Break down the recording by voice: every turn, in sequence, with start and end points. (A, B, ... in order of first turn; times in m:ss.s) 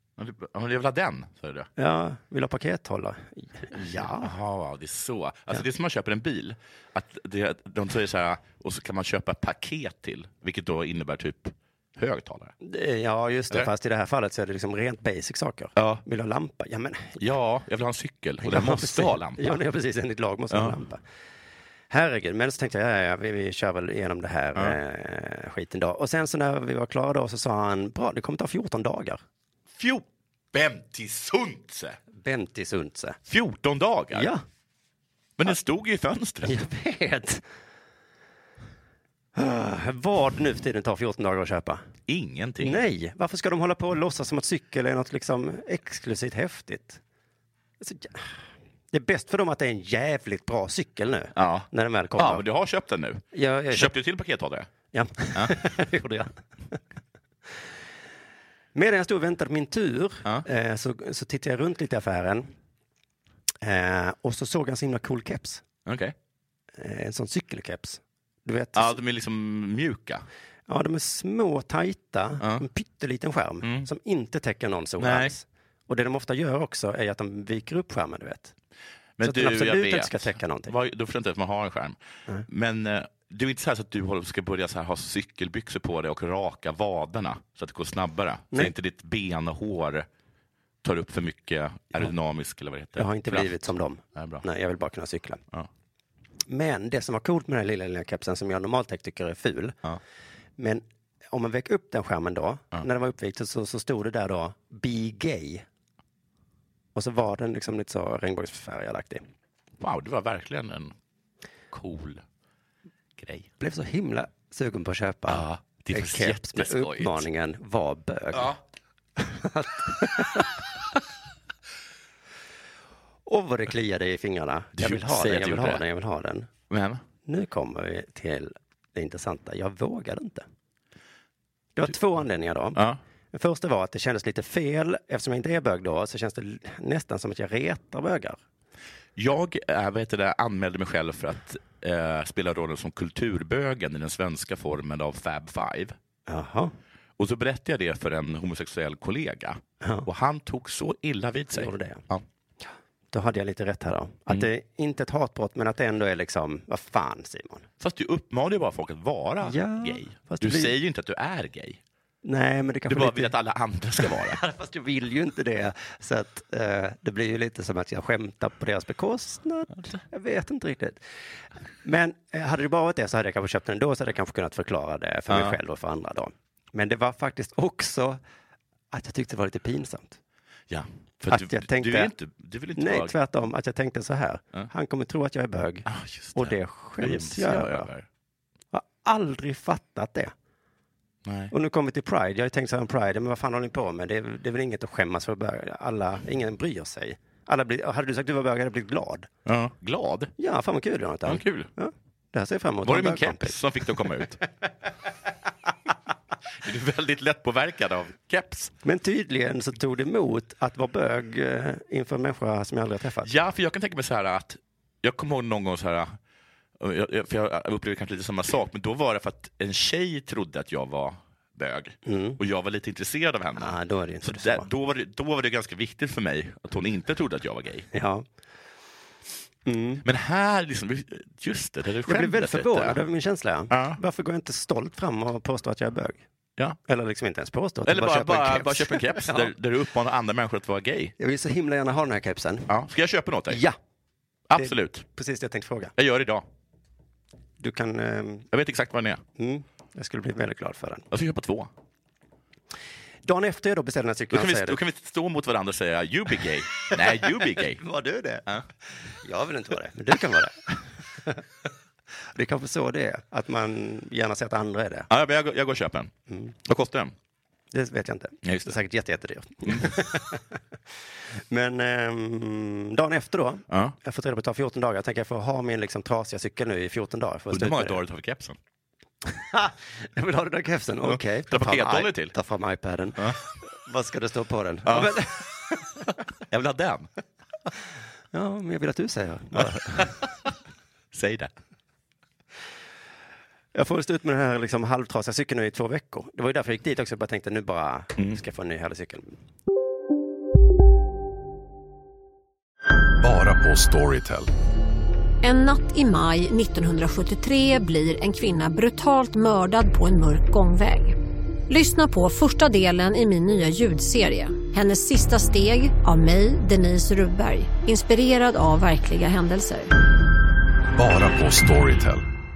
0:00.2-0:01.7 A
0:01.8-0:04.3 B
0:03.7-0:12.5 A
0:12.6-0:17.2 B
0:15.8-0:16.0 A
0:17.2-0:19.6 A
0:18.4-0:21.0 B
0:20.5-0:20.8 A
0:21.9-0:29.2 B
0:29.8-0:32.0 A
0:32.2-0:33.2 B
0:33.3-0:34.3 A
0:34.1-0:34.4 B
0:35.4-0:36.5 A
0:36.4-0:37.4 B
0:39.4-0:41.8 B
0:42.1-0:42.8 A
0:42.6-0:47.0 B
0:47.8-0:48.3 B
0:48.9-0:52.4 B
0:51.4-0:54.7 A
0:53.3-0:54.0 B
0:54.9-0:56.8 B
0:58.8-1:02.5 B
1:03.6-1:05.6 B
1:05.9-1:06.1 A
1:06.8-1:09.0 B
1:08.8-1:10.3 A
1:10.7-1:18.5 B
1:12.4-1:12.6 A
1:13.6-1:13.9 A
1:15.0-1:15.3 A
1:19.2-1:30.1 A
1:19.2-1:20.7 B
1:30.8-1:34.4 A
1:33.0-1:35.4 B
1:36.5-1:39.8 B
1:40.6-1:45.6 B
1:47.0-1:49.2 B
1:49.8-1:50.9 A
1:51.7-1:52.2 A
1:53.2-1:53.5 A
1:53.6-1:58.5 B
1:55.3-1:57.2 A
1:59.2-2:00.5 B
2:03.3-2:06.5 B
2:04.8-2:05.8 A
2:06.7-2:07.0 A
2:07.3-2:10.5 B
2:11.8-2:12.8 B
2:13.3-2:18.4 B
2:19.2-2:26.0 A
2:26.3-2:26.7 B
2:27.2-2:32.2 A
2:31.5-2:32.0 B
2:32.6-2:37.6 B
2:37.8-2:41.8 A
2:39.4-2:40.7 B
2:42.2-2:43.3 B
2:42.9-2:44.4 A
2:44.0-2:51.0 B
2:51.8-2:58.2 B
2:55.3-2:55.6 A
2:58.9-3:00.2 B
3:00.7-3:03.1 A
3:01.3-3:02.1 B
3:02.8-3:07.9 B
3:05.9-3:08.1 A
3:08.7-3:10.3 B
3:11.3-3:11.5 A
3:11.5-3:19.3 B
3:19.5-3:20.3 A
3:20.4-3:24.1 B
3:21.3-3:21.7 A
3:22.8-3:24.4 A
3:26.6-3:28.7 A
3:28.8-3:33.3 B
3:33.2-3:36.2 A
3:36.8-3:47.9 A
3:42.1-3:42.4 B
3:43.6-3:44.7 B
3:47.9-3:48.2 B
3:49.6-3:50.0 B
3:50.0-3:53.0 A
3:52.1-3:56.2 B
3:53.7-3:54.0 A
3:56.9-3:59.5 B
3:57.9-4:01.1 A
4:01.2-4:02.7 B
4:02.7-4:03.6 A
4:03.5-4:03.8 B
4:04.5-4:05.0 A
4:04.6-4:05.9 B
4:06.0-4:06.4 A
4:07.6-4:08.5 B
4:08.5-4:09.2 A
4:09.4-4:11.1 B
4:11.1-4:11.7 A
4:13.2-4:14.8 B
4:14.3-4:17.8 A
4:17.8-4:18.5 B
4:19.1-4:21.4 B
4:22.3-4:25.1 B
4:25.1-4:26.1 A
4:26.6-4:27.1 A
4:27.7-4:30.4 B
4:28.4-4:28.8 A
4:31.5-4:38.0 B
4:33.7-4:34.0 A
4:37.5-4:38.6 A
4:39.4-4:45.9 B
4:41.0-4:42.4 A
4:44.9-4:45.3 A
4:46.5-4:47.1 A
4:48.3-4:50.2 B
4:49.6-4:50.3 A
4:51.1-4:51.5 A
4:53.7-4:59.4 B
5:03.2-5:04.5 C
5:05.4-5:11.2 D
5:11.7-5:19.9 D
5:21.0-5:22.3 C